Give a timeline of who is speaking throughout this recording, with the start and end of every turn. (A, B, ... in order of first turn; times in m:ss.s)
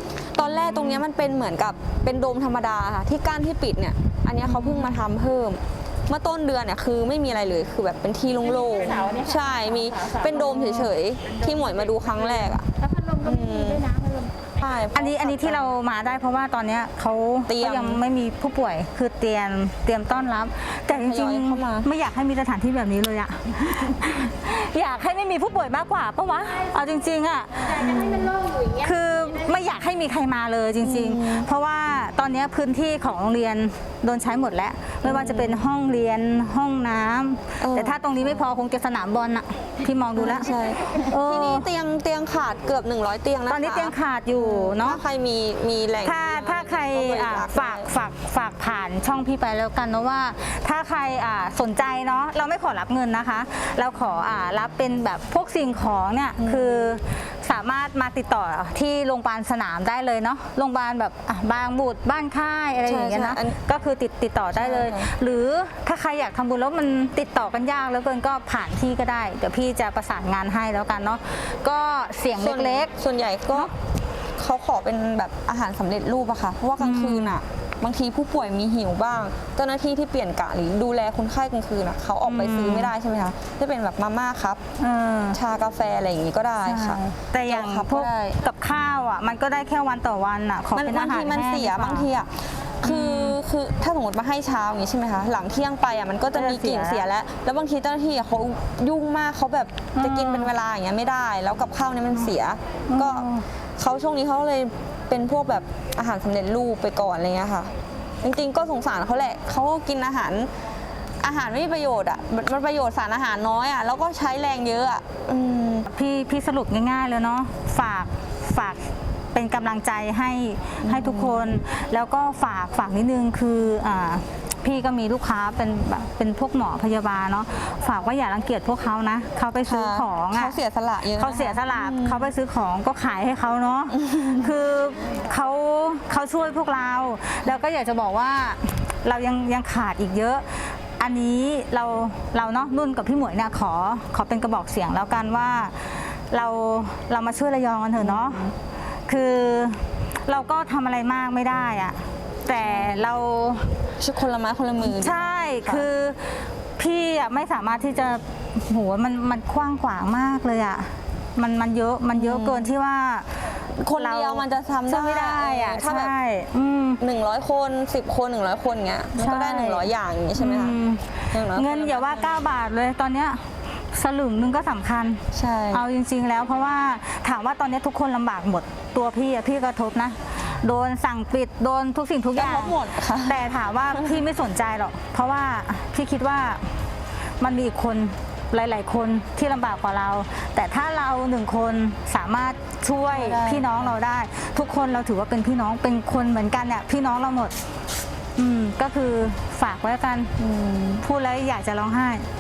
0:00.3-0:12.7 A
0:00.6-0:01.0 B
0:04.5-0:04.9 B
0:08.4-0:10.9 C
0:12.8-0:14.6 C
0:13.2-0:13.8 A
0:14.6-0:15.7 A
0:14.9-0:41.7 B
0:17.5-0:18.0 A
0:20.9-0:21.9 A
0:27.6-0:28.9 C
0:27.8-0:28.3 A
0:30.8-0:31.5 A
0:35.0-0:35.6 A
0:37.6-0:38.5 A
0:40.2-0:47.9 A
0:43.5-0:45.0 B
0:46.0-1:12.9 B
0:56.4-0:56.9 A
1:02.9-1:03.6 A
1:04.5-1:05.1 A
1:12.4-1:13.7 A
1:14.4-1:24.6 A
1:16.8-1:17.4 B
1:22.3-1:22.9 B
1:24.8-1:25.4 B
1:25.3-1:28.4 A
1:26.6-1:32.1 B
1:30.8-1:50.5 A
1:32.8-1:33.4 B
1:36.3-1:37.1 B
1:40.0-1:40.5 B
1:42.9-1:43.5 B
1:51.2-1:55.9 A
1:55.9-1:58.8 B
1:59.3-2:10.6 B
2:00.8-2:01.6 A
2:09.7-2:12.3 A
2:11.2-2:28.5 B
2:28.0-2:28.5 A
2:29.1-2:33.7 B
2:32.6-2:33.1 A
2:34.0-2:35.9 A
2:34.8-2:43.3 B
2:42.1-2:42.7 A
2:43.8-2:46.1 A
2:43.9-2:47.0 B
2:47.0-2:50.8 A
2:49.2-3:06.7 B
2:51.3-2:52.4 A
2:55.3-2:55.8 A
3:02.3-3:03.4 A
3:07.4-3:17.5 B
3:13.1-3:14.0 A
3:18.4-3:20.4 B
3:20.4-3:21.0 A
3:21.0-3:22.3 B